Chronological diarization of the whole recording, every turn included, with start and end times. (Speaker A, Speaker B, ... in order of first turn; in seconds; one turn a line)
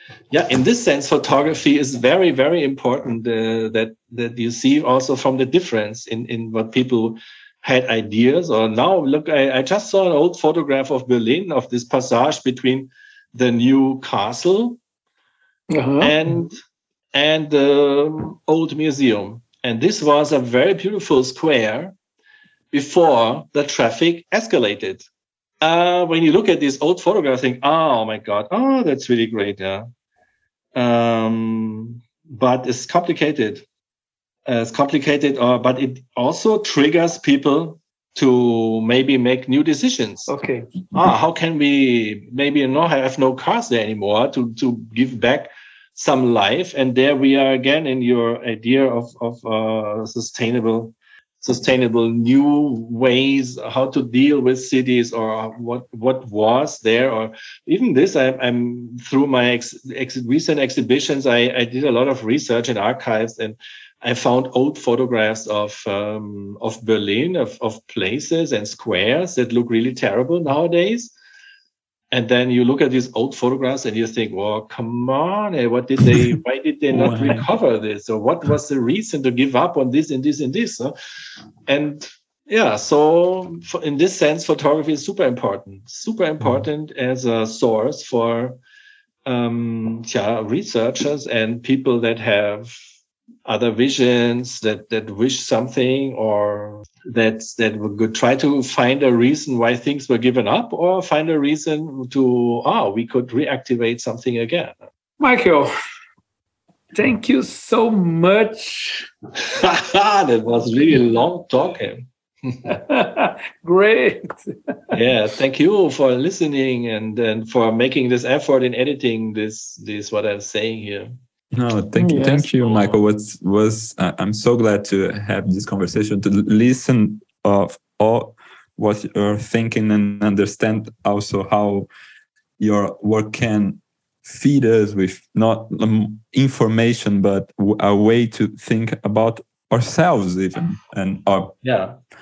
Speaker A: 0.3-14.8
Speaker B: 15.7-16.1
Speaker A: 16.0-16.6
Speaker A: 17.1-22.0
Speaker A: 22.7-25.1
Speaker A: 25.6-29.9
Speaker A: 30.8-33.6
Speaker A: 34.5-40.3
Speaker B: 40.3-40.7
Speaker A: 40.9-71.2
Speaker A: 72.1-81.0
Speaker C: 76.9-77.5
Speaker A: 81.7-88.6
Speaker A: 89.3-92.7
Speaker A: 93.5-104.8
Speaker B: 105.2-105.7
Speaker B: 106.9-109.1
Speaker A: 109.4-112.6
Speaker B: 112.7-114.5
Speaker A: 114.9-121.1
Speaker C: 121.5-131.9
Speaker B: 122.0-122.8
Speaker C: 132.6-141.6
Speaker A: 141.6-141.9